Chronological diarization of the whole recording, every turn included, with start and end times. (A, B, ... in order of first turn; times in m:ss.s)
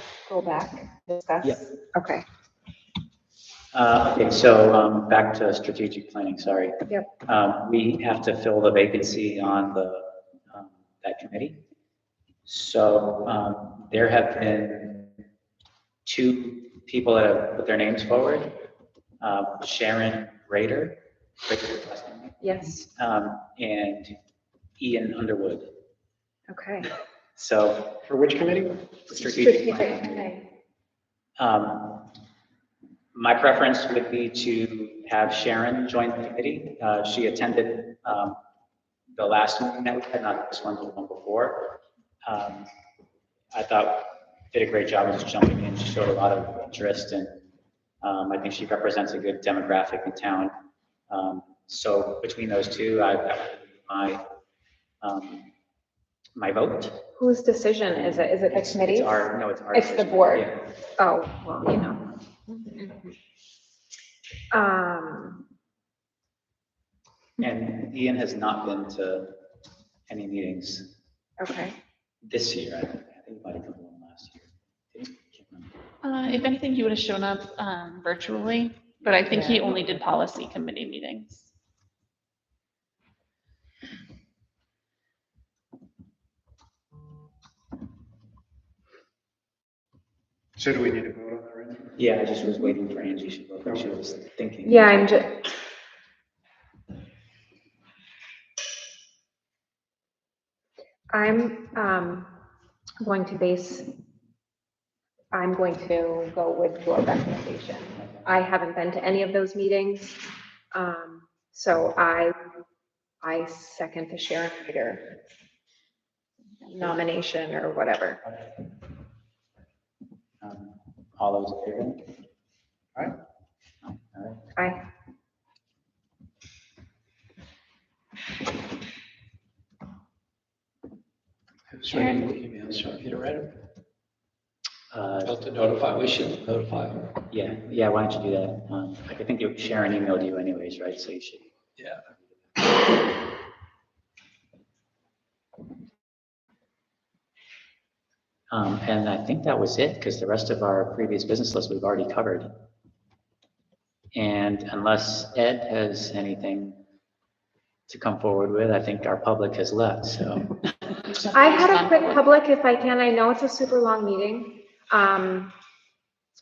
0:00.3-0:02.2 A
0:03.7-0:11.6 B
0:12.4-0:15.2 B
0:16.0-0:18.6 B
0:19.2-0:24.2 B
0:22.4-0:22.9 A
0:24.8-0:25.8 B
0:26.5-0:26.9 A
0:27.4-0:28.0 B
0:28.0-0:28.9 C
0:29.1-0:30.3 B
0:29.3-0:30.4 A
0:31.4-0:32.1 B
0:33.1-0:38.4 B
0:39.2-0:42.7 B
0:43.5-0:47.4 B
0:48.0-0:50.5 B
0:51.1-0:54.2 B
0:55.0-0:55.5 B
0:56.4-0:57.1 B
0:57.2-1:03.1 A
0:57.9-1:00.7 B
1:04.5-1:05.4 A
1:07.4-1:09.4 B
1:10.1-1:10.9 B
1:11.4-1:11.8 A
1:12.2-1:15.8 B
1:16.0-1:21.5 D
1:30.6-1:32.0 C
1:32.0-1:35.2 B
1:34.6-1:35.4 A
1:41.1-1:42.3 A
1:43.0-1:43.9 A
1:45.3-1:52.4 A
1:53.2-1:55.2 A
1:56.6-1:56.9 D
1:56.7-1:58.2 A
2:00.4-2:02.1 B
2:03.8-2:04.5 B
2:04.6-2:04.8 A
2:11.7-2:13.6 E
2:11.9-2:12.2 D
2:14.9-2:15.3 B
2:15.2-2:17.2 E
2:17.3-2:21.5 B
2:21.8-2:22.0 E
2:28.5-2:32.5 B
2:34.1-2:36.8 B
2:37.9-2:40.7 B
2:41.0-2:42.2 D
2:41.3-2:45.5 A